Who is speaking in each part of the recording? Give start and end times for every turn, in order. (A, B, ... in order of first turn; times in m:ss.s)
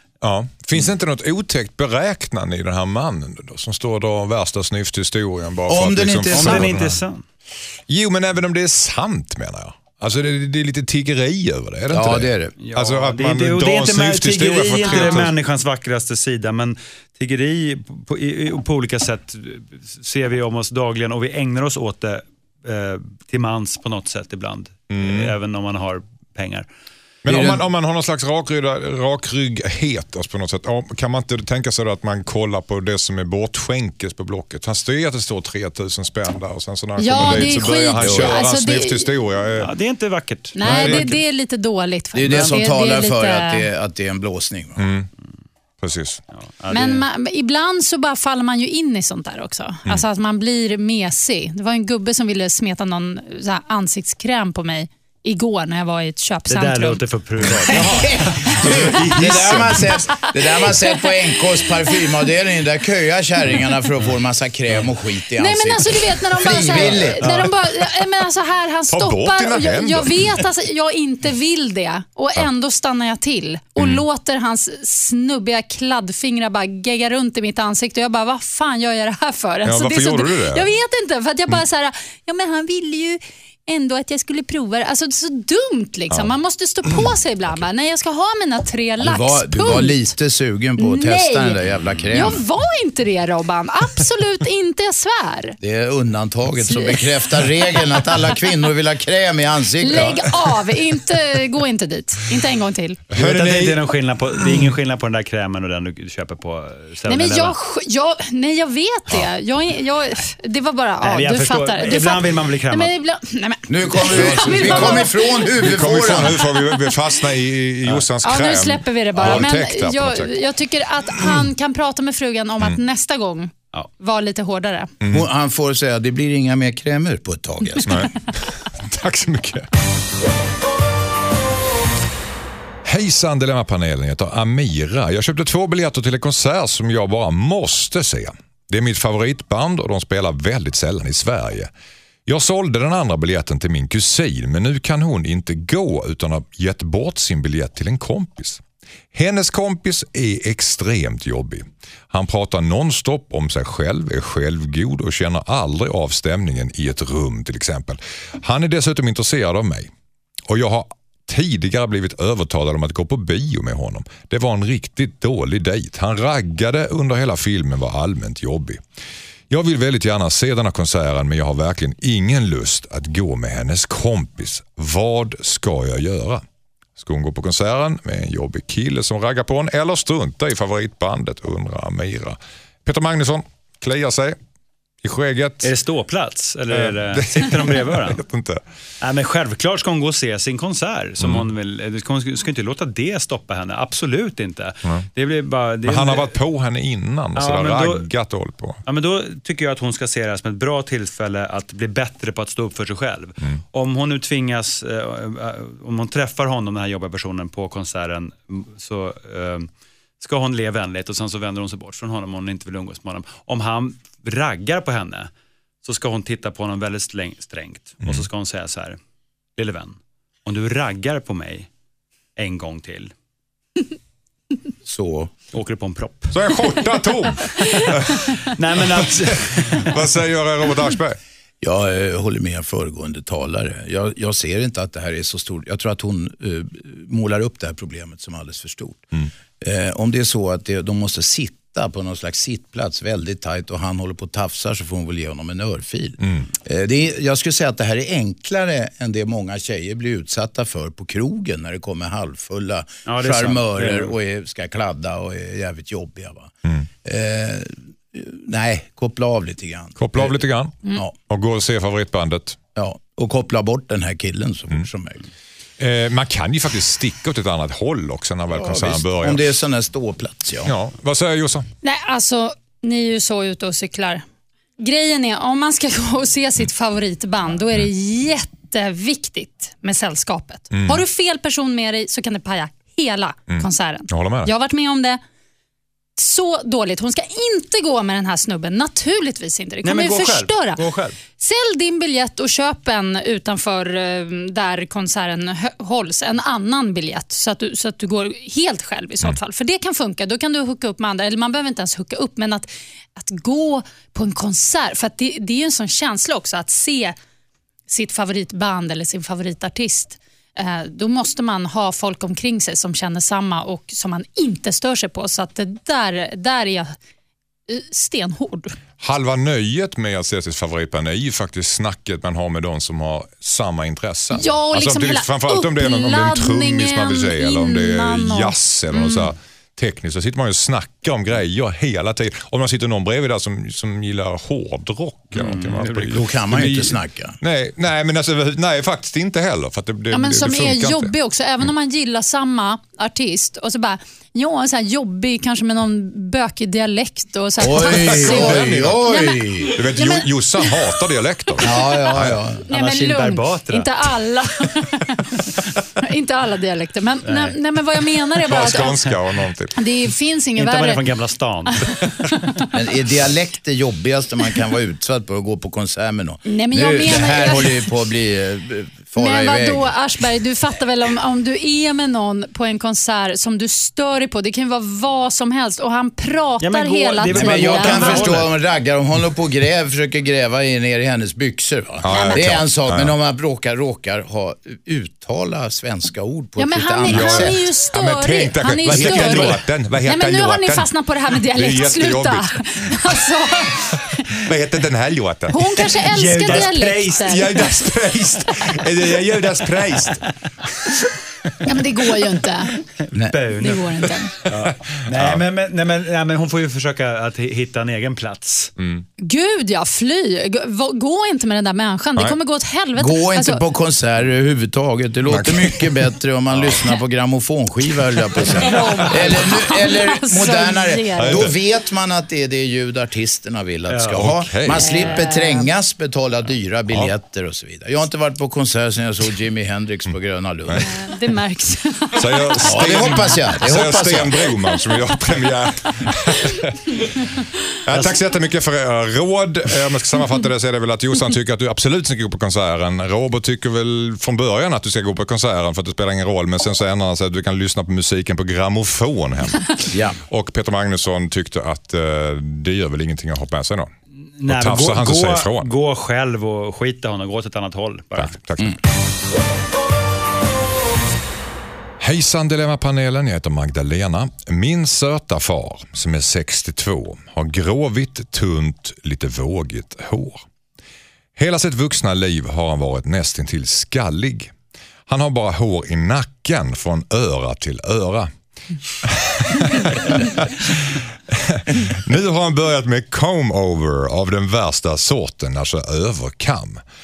0:00.2-0:07.0 A
0:05.7-0:06.7 B
0:06.3-0:07.2 C
0:07.9-0:15.3 A
0:11.9-0:12.5 B
0:12.6-0:26.7 C
0:14.9-0:15.1 D
0:24.9-0:25.3 A
0:27.2-0:39.7 A
0:27.3-0:27.6 B
0:37.0-0:39.1 D
0:37.2-0:38.4 B
0:39.6-0:41.1 C
0:40.6-0:43.7 D
0:40.6-0:41.1 A
0:42.1-0:44.8 B
0:44.8-0:45.1 A
0:45.8-0:46.2 A
0:46.4-0:47.0 C
0:46.7-0:57.0 D
0:56.5-0:58.0 C
0:57.5-1:00.0 A
0:57.7-1:07.2 B
1:00.3-1:01.1 D
1:05.4-1:30.0 D
1:07.2-1:07.5 C
1:08.9-1:10.4 A
1:13.8-1:14.0 A
1:19.6-1:20.7 A
1:29.0-1:32.4 B
1:30.8-1:31.6 D
1:32.1-1:35.6 D
1:35.6-1:40.3 B
1:36.6-1:38.0 D
1:39.8-1:43.0 D
1:43.1-1:43.8 A
1:43.2-1:47.6 C
1:47.1-1:55.6 D
1:51.0-1:52.9 C
1:53.7-1:56.4 B
1:54.1-2:00.4 A
1:56.2-1:56.9 D
1:58.2-2:04.9 D
2:05.0-2:05.3 A
2:05.1-2:08.0 B
2:07.8-2:09.7 A
2:12.8-2:21.7 A
2:22.3-2:28.6 A
2:29.1-2:39.9 A
2:40.5-2:48.8 A
2:49.5-2:56.4 A
2:57.0-3:04.4 A
3:05.0-3:05.7 A
3:05.6-3:08.2 C
3:06.7-3:08.6 A
3:09.0-3:16.4 C
3:11.2-3:11.5 A
3:15.8-3:18.8 A
3:17.4-3:18.1 C
3:18.9-3:29.7 C
3:30.2-3:35.3 C
3:35.8-3:39.0 C
3:39.6-3:41.7 C
3:42.4-3:43.1 C
3:44.8-3:45.3 B
3:45.5-3:46.6 C
3:46.3-3:51.2 A
3:48.6-3:50.0 C
3:51.6-4:16.5 B
4:06.2-4:06.5 A
4:13.1-4:14.1 C
4:17.0-4:20.4 B
4:20.0-4:22.6 A
4:22.8-4:25.3 B
4:25.8-4:29.4 A
4:28.6-4:30.7 B
4:30.6-4:31.7 A
4:31.8-4:34.2 D
4:34.8-4:45.2 D
4:40.7-4:41.0 A
4:43.5-4:44.5 A
4:46.2-5:07.2 D
4:49.8-4:51.2 C
5:07.9-5:17.0 D
5:17.7-5:18.8 D
5:19.0-5:41.1 A
5:24.3-5:29.3 D
5:35.3-5:36.1 C
5:35.9-5:37.4 B
5:40.1-5:50.9 D
5:47.6-5:49.7 B
5:47.7-5:49.1 A
5:49.7-5:52.4 A
5:51.6-5:52.7 B
5:52.7-5:55.5 D
5:52.7-5:54.1 C
5:56.0-5:59.1 D
5:57.2-5:57.6 C
5:58.5-5:59.8 A
5:58.7-5:59.1 C
5:59.8-6:01.0 D
6:00.6-6:02.0 C
6:02.1-6:02.7 D
6:02.7-6:09.9 B
6:06.5-6:07.9 D
6:09.2-6:18.4 D
6:16.6-6:18.5 C
6:17.3-6:27.6 B
6:22.0-6:23.2 A
6:22.1-6:22.6 D
6:26.6-6:34.2 D
6:27.1-6:36.7 A
6:28.9-6:29.6 C
6:35.5-6:37.9 D
6:36.1-6:37.4 C
6:37.2-6:40.3 A
6:41.6-6:42.8 D
6:43.0-6:43.8 C
6:43.1-6:43.4 B
6:43.6-6:44.4 D
6:44.4-6:45.4 A
6:44.5-6:48.7 C
6:48.8-6:49.1 A
6:49.2-6:53.6 D
6:53.0-7:10.9 B
6:55.3-6:56.7 A
6:58.4-6:59.3 A
6:58.4-7:01.6 D
7:01.2-7:01.5 A
7:03.9-7:04.2 C
7:04.1-7:05.1 A
7:04.9-7:05.7 D
7:10.8-7:13.1 D
7:12.1-7:17.0 A
7:12.7-7:14.5 B
7:17.8-7:33.9 A
7:29.9-7:30.2 B
7:34.4-7:38.3 C
7:34.5-7:35.7 A
7:38.2-7:38.8 A
7:42.0-7:50.4 A
7:51.4-7:54.5 A
7:55.1-7:58.3 A
7:59.0-8:06.8 A